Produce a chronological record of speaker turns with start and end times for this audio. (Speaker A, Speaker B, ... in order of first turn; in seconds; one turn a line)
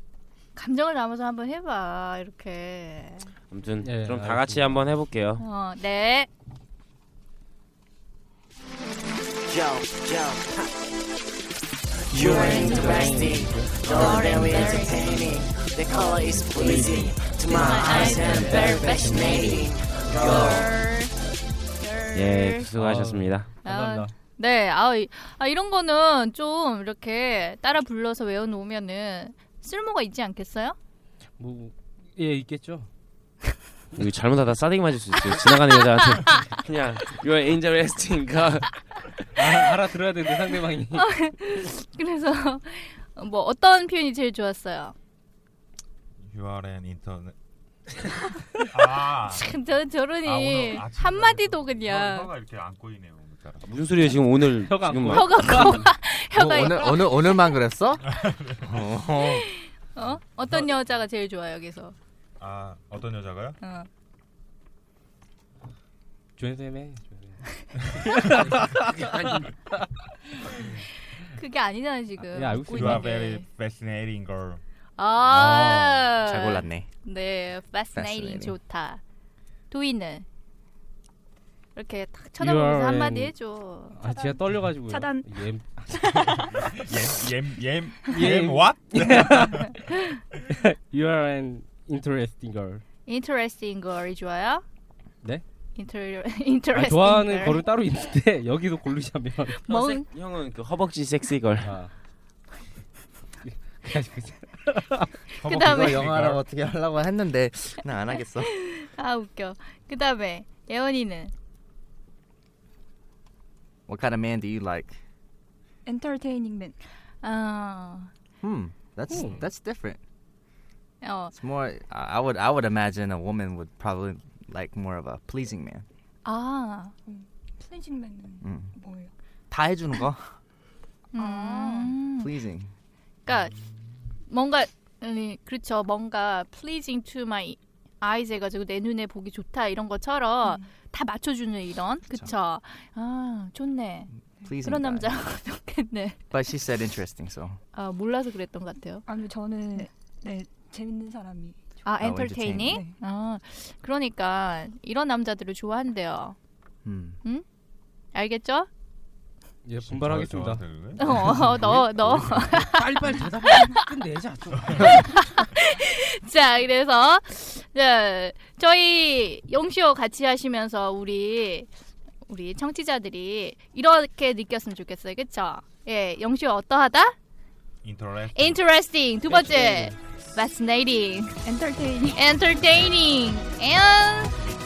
Speaker A: 0.6-3.3
Speaker B: 3.5-5.4
Speaker C: 3.8-4.8
Speaker A: 5.4-6.3
Speaker D: 9.4-10.9
Speaker D: 12.1-20.7
Speaker A: 12.2-13.3
Speaker C: 12.2-14.4
Speaker E: 12.6-12.9
Speaker A: 13.8-15.2
Speaker E: 14.1-15.3
Speaker E: 15.9-17.1
Speaker A: 17.4-21.1
Speaker C: 17.5-20.6
Speaker A: 21.8-22.7
Speaker B: 22.1-23.5
Speaker C: 22.7-24.1
Speaker A: 23.6-30.8
Speaker C: 31.4-32.9
Speaker B: 33.9-39.0
Speaker A: 35.5-36.5
Speaker C: 39.4-41.1
Speaker A: 40.9-44.9
Speaker F: 46.2-47.3
Speaker F: 48.7-49.5
Speaker A: 49.3-52.3
Speaker F: 50.2-53.7
Speaker B: 53.6-55.8
Speaker C: 54.5-55.9
Speaker A: 55.1-57.4
Speaker G: 56.3-58.0
Speaker F: 58.1-58.9
Speaker G: 58.6-59.5
Speaker A: 59.2-61.9
Speaker F: 62.4-63.6
Speaker A: 63.6-63.9
Speaker C: 66.4-67.4
Speaker C: 67.9-69.5
Speaker A: 71.3-73.5
Speaker C: 72.3-73.1
Speaker F: 72.7-74.6
Speaker A: 75.0-79.0
Speaker C: 75.3-76.1
Speaker G: 76.2-76.9
Speaker G: 77.9-78.5
Speaker A: 79.7-80.2
Speaker A: 81.8-84.0
Speaker C: 82.4-83.3
Speaker C: 84.0-85.9
Speaker E: 84.0-87.0
Speaker F: 86.3-89.7
Speaker C: 88.0-89.7
Speaker C: 90.5-92.8
Speaker A: 93.0-94.6
Speaker A: 95.7-97.6
Speaker C: 96.7-99.7
Speaker A: 99.6-100.1
Speaker B: 99.7-101.7
Speaker C: 101.6-101.9
Speaker C: 103.4-105.2
Speaker G: 105.4-108.5
Speaker F: 105.4-106.4
Speaker A: 105.4-106.1
Speaker A: 108.6-111.3
Speaker G: 113.9-115.0
Speaker E: 115.8-116.8
Speaker A: 117.2-118.1
Speaker G: 118.4-120.0
Speaker C: 119.1-119.4
Speaker A: 121.0-121.3
Speaker G: 121.3-125.8
Speaker A: 126.2-126.9
Speaker E: 127.0-129.1
Speaker G: 128.4-128.7
Speaker G: 129.5-130.3
Speaker A: 131.1-132.3
Speaker E: 131.1-131.9
Speaker G: 132.2-132.7
Speaker A: 133.2-133.5
Speaker A: 134.3-144.1
Speaker E: 140.4-140.7
Speaker G: 144.4-145.2
Speaker A: 144.6-146.2
Speaker G: 146.3-147.6
Speaker A: 147.7-149.0
Speaker E: 149.1-151.9
Speaker A: 151.8-156.3
Speaker G: 152.0-152.8
Speaker E: 152.6-153.0
Speaker G: 156.8-157.2
Speaker A: 158.1-158.7
Speaker C: 159.6-165.3
Speaker F: 159.8-161.7
Speaker A: 161.0-163.8
Speaker A: 164.8-171.7
Speaker A: 172.3-177.2
Speaker F: 177.8-178.6
Speaker A: 178.3-181.4
Speaker C: 179.3-180.0
Speaker E: 181.4-182.3
Speaker A: 182.1-184.4